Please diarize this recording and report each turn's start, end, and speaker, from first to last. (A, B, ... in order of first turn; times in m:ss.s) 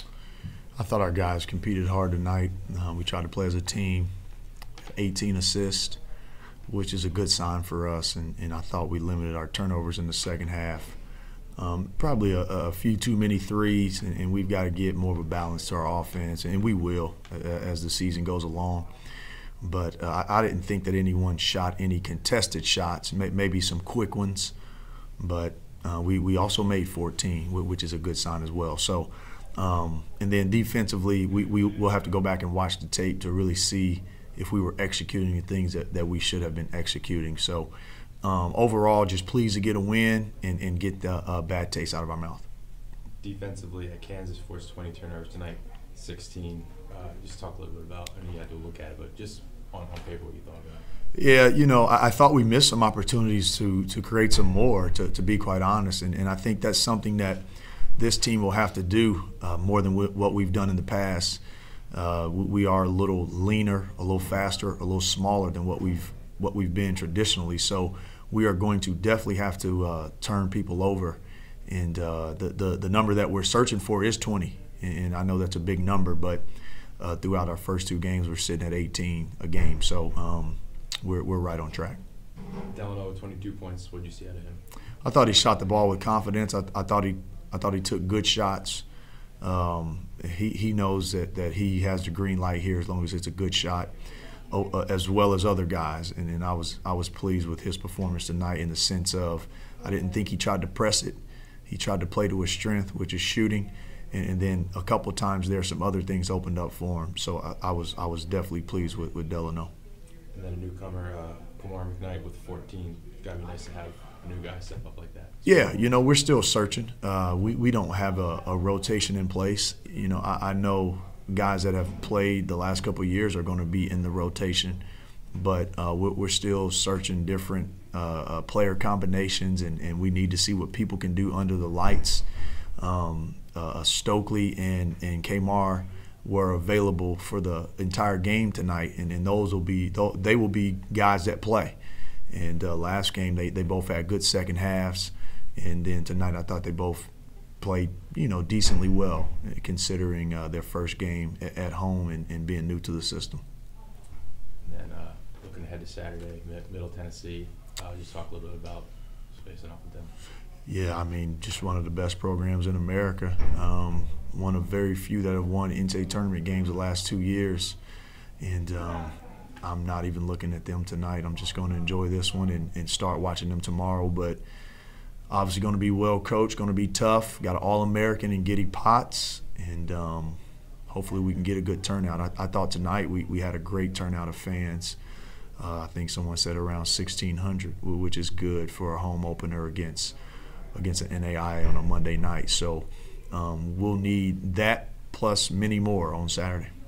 0:00.8-0:04.1 A
0:04.9-0:06.0 A
0:06.7-0:11.0 A
0:11.6-0:18.9 A
0:19.6-0:24.5 A
0:25.2-0:37.7 A
0:38.2-0:42.4 A
0:43.2-0:50.8 B
0:51.1-0:57.4 A
0:58.0-1:01.4 A
1:01.9-1:16.4 A
1:17.0-1:22.0 A
1:22.7-1:24.6 B
1:25.0-1:28.8 A
1:29.4-1:33.9 A
1:34.5-1:41.2 A
1:41.7-1:49.7 A
1:50.3-1:55.4 B
1:55.4-2:04.8 A
2:05.3-2:12.3 A
2:12.8-2:21.8 A
2:22.3-2:33.4 A
2:34.6-2:40.1 B
2:40.6-2:47.8 A
2:48.4-2:54.4 A
2:55.3-3:00.4 A
3:00.9-3:05.0 A
3:05.6-3:10.1 A
3:10.7-3:16.7 A